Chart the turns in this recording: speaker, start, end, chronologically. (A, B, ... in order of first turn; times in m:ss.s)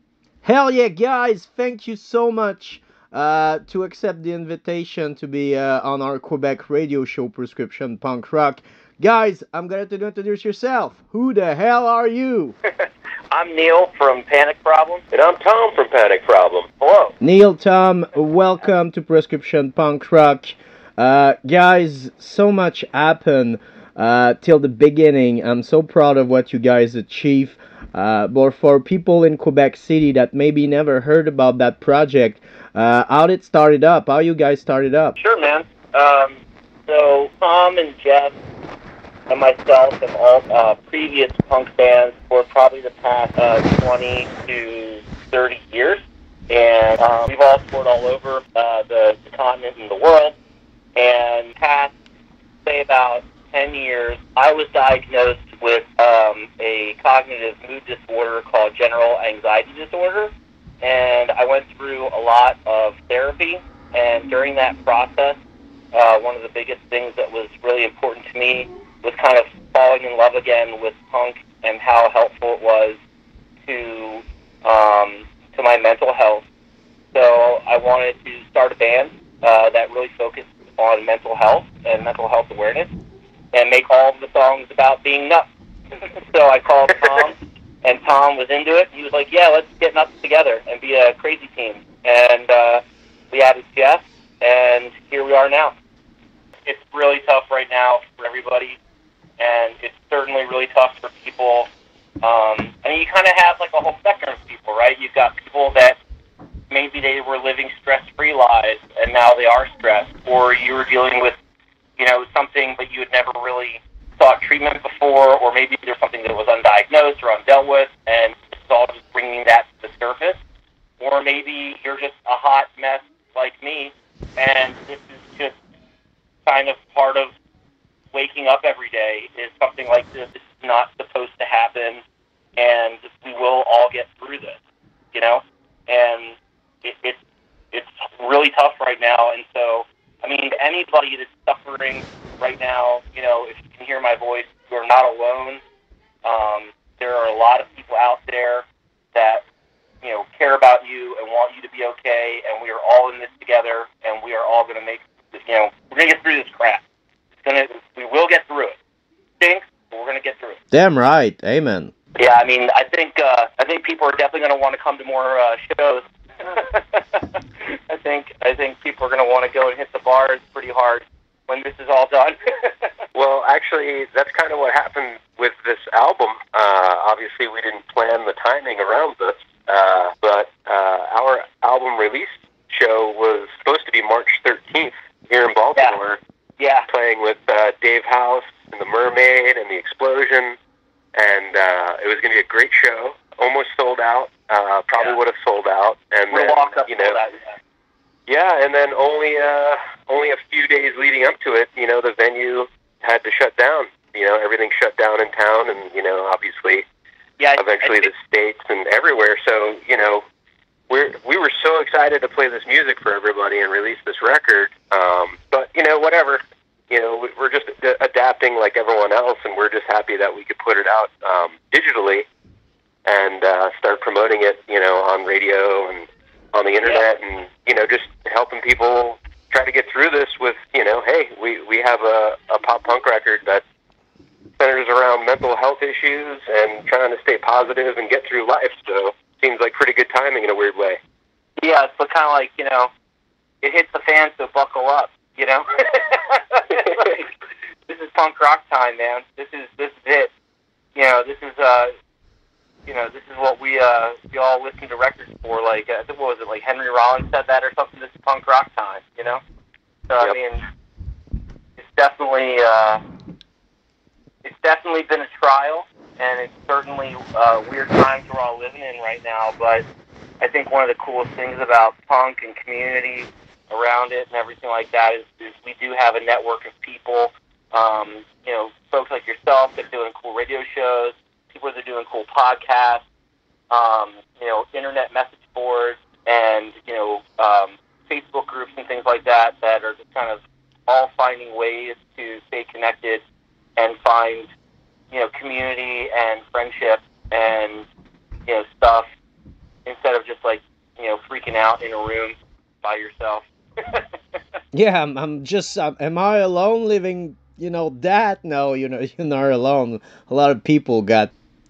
0:00.4-0:12.6 A
0:12.7-0:15.0 B
0:15.1-0:16.8 C
0:16.8-0:17.2 B
0:17.2-0:35.2 A
0:35.2-0:38.4 B
0:39.3-0:50.4 B
0:51.0-0:51.9 B
0:52.7-1:00.3 B
1:00.8-1:05.4 B
1:05.9-1:13.0 B
1:13.7-1:16.4 B
1:17.1-1:22.9 B
1:23.5-1:25.5 B
1:26.0-1:35.7 B
1:36.7-1:38.8 B
1:39.4-1:41.7 B
1:42.2-1:46.0 B
1:46.7-1:51.4 B
1:52.0-2:00.4 B
2:01.0-2:05.6 B
2:06.5-2:07.3 B
2:08.1-2:12.0 B
2:12.6-2:14.6 B
2:15.1-2:17.2 B
2:17.7-2:25.6 B
2:26.2-2:29.4 B
2:30.0-2:36.8 B
2:37.4-2:38.8 B
2:39.4-2:40.6 B
2:40.7-2:41.9 A
2:42.2-2:52.9 B
2:53.2-3:06.2 C
3:05.8-3:06.1 B
3:06.6-3:06.9 B
3:06.9-3:10.6 C
3:11.2-3:17.2 C
3:16.3-3:17.5 B
3:18.3-3:26.8 C
3:27.4-3:28.1 B
3:27.6-3:30.2 C
3:30.9-3:42.2 C
3:43.1-3:53.6 C
3:54.6-4:01.0 C
4:01.6-4:02.9 B
4:03.6-4:07.3 B
4:06.8-4:07.1 C
4:07.9-4:10.3 B
4:11.0-4:11.9 B
4:12.9-4:19.4 B
4:20.1-4:20.6 B
4:21.8-4:23.0 B
4:24.4-4:29.8 B
4:30.4-4:43.0 B
4:43.7-4:53.2 B
4:53.8-4:54.5 B
4:55.1-4:57.9 B
4:58.5-4:59.1 B
4:59.9-5:04.6 B
5:04.7-5:11.3 A